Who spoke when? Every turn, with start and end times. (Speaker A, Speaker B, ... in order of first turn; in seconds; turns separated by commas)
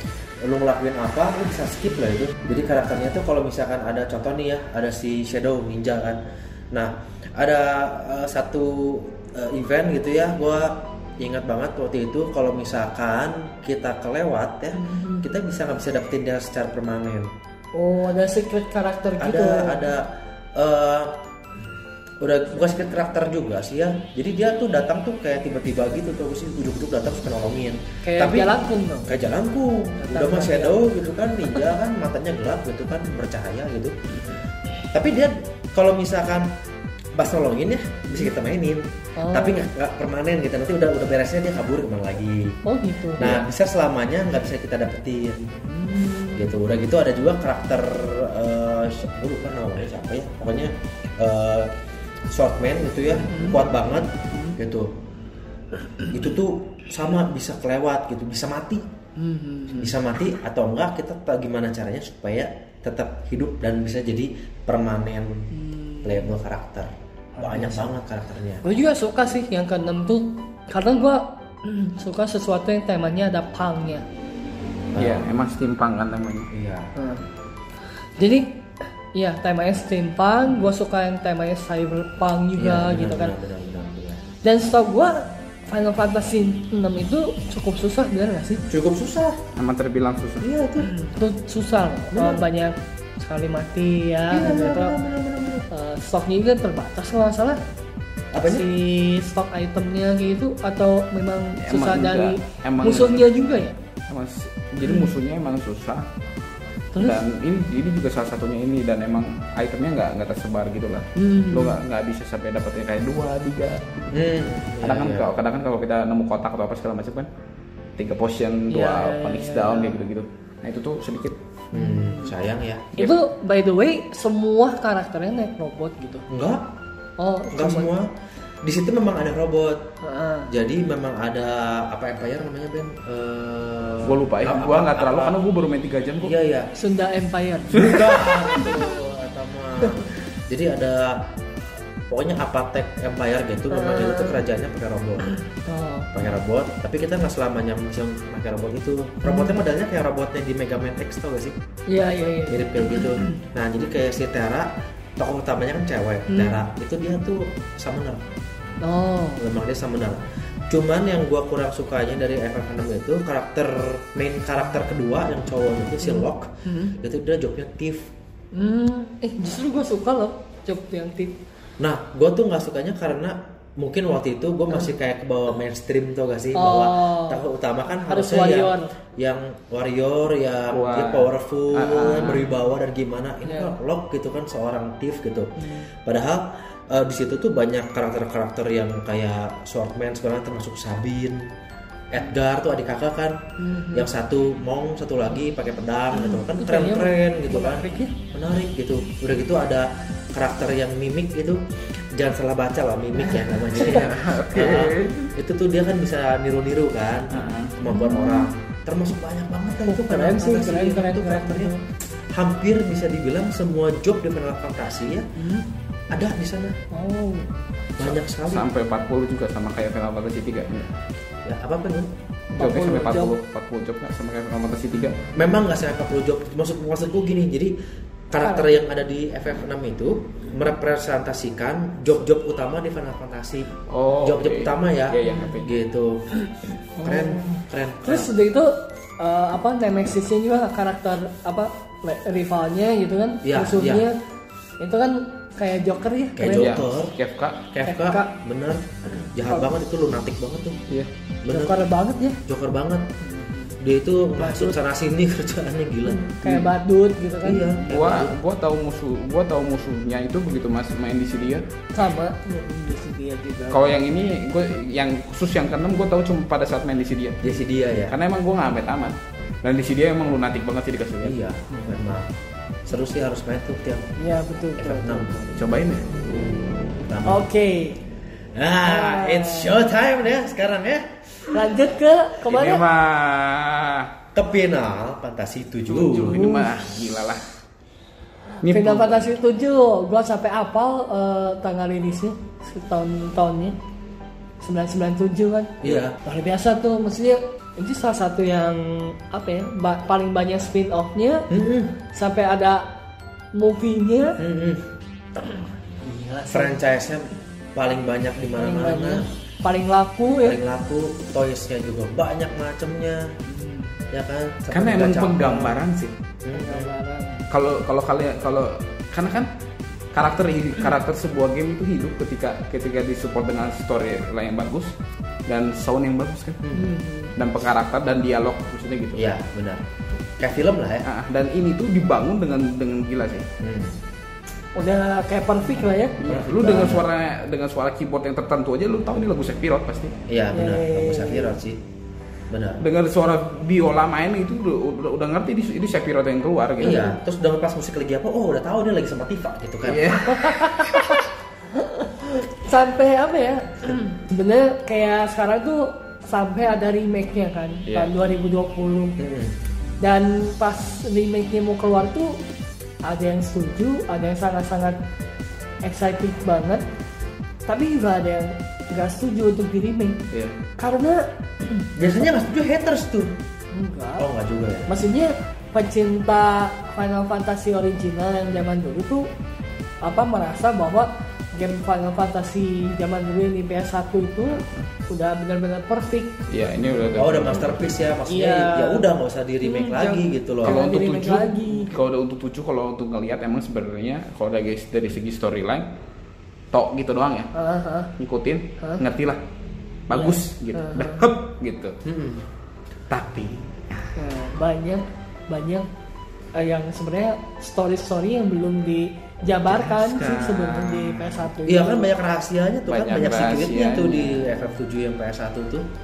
Speaker A: 0.4-17.3, Speaker B: 14.8-15.3, Speaker B: 17.7-19.8, Speaker A: 19.2-21.2, Speaker A: 22.2-34.1, Speaker B: 28.0-29.1, Speaker B: 30.0-30.9, Speaker A: 34.9-36.5, Speaker A: 37.1-42.6, Speaker B: 39.2-39.6, Speaker B: 42.6-43.3, Speaker A: 43.2-45.6, Speaker B: 45.7-46.5, Speaker A: 46.2-51.8, Speaker A: 52.3-54.9, Speaker B: 53.3-53.6, Speaker B: 54.3-54.6, Speaker A: 56.1-58.9, Speaker B: 59.2-59.9, Speaker A: 59.8-65.5, Speaker B: 65.5-66.3, Speaker A: 66.0-68.7, Speaker B: 67.4-67.9, Speaker B: 68.6-74.0, Speaker A: 74.9-75.3, Speaker C: 75.0-76.5, Speaker A: 76.5-76.9, Speaker B: 77.0-77.2, Speaker B: 78.2-78.6, Speaker B: 79.1-83.3, Speaker A: 82.6-84.2, Speaker B: 84.4-88.6, Speaker A: 88.7-89.4, Speaker C: 89.6-90.5, Speaker A: 90.4-90.9, Speaker B: 90.8-95.0, Speaker A: 92.1-92.5, Speaker A: 94.3-95.7, Speaker B: 95.7-97.6, Speaker A: 98.3-98.7, Speaker B: 98.4-103.8, Speaker C: 101.6-103.3, Speaker C: 104.1-106.0, Speaker B: 106.9-107.2, Speaker C: 107.0-113.8, Speaker B: 111.2-111.8, Speaker A: 114.1-115.4, Speaker C: 114.8-117.3, Speaker C: 118.0-121.4, Speaker B: 118.7-120.0, Speaker B: 121.7-122.3, Speaker A: 121.7-122.9, Speaker B: 123.0-126.3, Speaker A: 126.3-126.7, Speaker B: 127.2-127.9, Speaker A: 127.5-128.1, Speaker A: 128.6-129.9, Speaker B: 130.0-130.5, Speaker A: 130.5-135.4, Speaker C: 134.0-136.3, Speaker A: 136.2-136.7, Speaker B: 136.8-137.8, Speaker A: 137.7-141.3, Speaker C: 137.7-138.7, Speaker A: 142.1-145.3, Speaker B: 143.7-144.3, Speaker B: 145.4-146.1, Speaker A: 146.1-151.6, Speaker B: 149.2-149.5, Speaker B: 151.9-153.4, Speaker A: 152.5-158.3, Speaker B: 156.3-156.6, Speaker B: 158.8-159.4, Speaker A: 159.4-168.1, Speaker B: 166.0-166.9, Speaker B: 168.5-171.4, Speaker A: 171.8-191.5, Speaker B: 176.6-177.4, Speaker B: 178.1-178.9, Speaker C: 180.7-182.5, Speaker B: 183.4-183.8, Speaker B: 185.6-185.9, Speaker A: 192.1-211.8, Speaker B: 193.6-194.1, Speaker B: 196.1-198.1, Speaker B: 203.2-203.9, Speaker C: 203.8-205.3, Speaker C: 207.3-207.8, Speaker B: 207.9-208.5, Speaker B: 209.9-211.8, Speaker A: 212.3-215.3, Speaker B: 215.4-215.7, Speaker A: 216.1-216.8, Speaker B: 216.9-217.5, Speaker A: 218.0-218.7, Speaker C: 218.0-220.9, Speaker A: 221.4-222.1, Speaker B: 222.5-223.3, Speaker C: 222.6-225.2, Speaker A: 225.3-227.8, Speaker A: 228.3-236.3, Speaker B: 228.4-228.7, Speaker C: 233.9-235.8, Speaker B: 235.2-235.6, Speaker B: 237.0-244.2, Speaker A: 237.0-238.3, Speaker A: 243.4-244.1, Speaker B: 244.8-246.7, Speaker A: 246.4-247.1, Speaker C: 246.5-247.7, Speaker A: 247.7-250.8, Speaker B: 247.8-248.3, Speaker A: 251.4-251.8, Speaker B: 251.5-252.4, Speaker A: 252.5-253.1, Speaker B: 253.2-253.8, Speaker A: 253.8-256.7, Speaker B: 254.4-254.8, Speaker B: 256.1-257.8, Speaker A: 257.4-258.3, Speaker C: 257.9-261.6, Speaker B: 261.9-264.0, Speaker C: 263.7-267.5, Speaker A: 267.4-268.2, Speaker C: 268.1-271.4, Speaker A: 271.2-272.3, Speaker A: 272.9-274.1, Speaker B: 274.2-275.4, Speaker A: 274.8-275.6, Speaker C: 275.6-276.6, Speaker A: 277.0-277.5, Speaker B: 277.3-278.0, Speaker A: 278.6-281.6, Speaker B: 278.8-279.8, Speaker B: 281.5-282.9, Speaker C: 282.5-284.1, Speaker A: 284.3-286.6, Speaker C: 285.9-287.5, Speaker B: 286.3-286.7, Speaker C: 288.6-289.3, Speaker B: 288.6-293.8, Speaker B: 294.6-301.5, Speaker A: 295.8-296.2, Speaker A: 301.5-301.9, Speaker B: 302.1-302.9, Speaker B: 303.6-304.4, Speaker A: 304.4-304.9, Speaker B: 305.4-306.8, Speaker A: 306.5-309.3, Speaker B: 308.6-310.6, Speaker A: 310.4-313.3, Speaker B: 313.5-313.9, Speaker A: 314.1-315.8, Speaker C: 314.7-316.1, Speaker A: 316.4-316.9, Speaker B: 316.5-317.4, Speaker C: 317.5-319.5, Speaker C: 320.1-324.9, Speaker C: 325.5-326.6, Speaker A: 326.6-326.9, Speaker B: 326.7-327.3, Speaker C: 327.4-329.2, Speaker A: 329.1-329.8, Speaker A: 330.4-331.1, Speaker C: 331.1-333.5, Speaker A: 333.6-334.0, Speaker B: 334.8-336.2, Speaker C: 336.2-340.1, Speaker A: 336.3-337.1, Speaker A: 340.3-341.8, Speaker B: 340.5-341.6, Speaker A: 342.5-342.8, Speaker C: 342.8-347.1, Speaker A: 346.8-350.2, Speaker B: 346.8-347.1, Speaker C: 349.9-351.2, Speaker B: 350.2-359.2, Speaker A: 359.2-359.6, Speaker B: 360.0-362.4, Speaker B: 363.0-365.0, Speaker B: 365.8-366.8, Speaker B: 367.7-370.2, Speaker C: 370.3-370.6, Speaker B: 370.8-371.9, Speaker A: 372.0-373.4, Speaker B: 373.7-374.3, Speaker A: 374.2-374.9, Speaker B: 374.9-379.3, Speaker B: 380.0-386.4, Speaker C: 386.5-387.9, Speaker A: 387.1-390.8, Speaker B: 388.3-389.1, Speaker B: 389.6-392.0, Speaker C: 390.6-395.9, Speaker C: 396.7-397.5, Speaker B: 397.5-398.1, Speaker C: 398.2-399.4, Speaker C: 400.1-402.0, Speaker B: 400.1-401.3, Speaker A: 402.0-402.5, Speaker C: 403.1-403.8, Speaker B: 404.2-405.9, Speaker B: 406.6-412.1, Speaker C: 409.7-411.4, Speaker A: 411.6-415.9, Speaker C: 412.9-414.5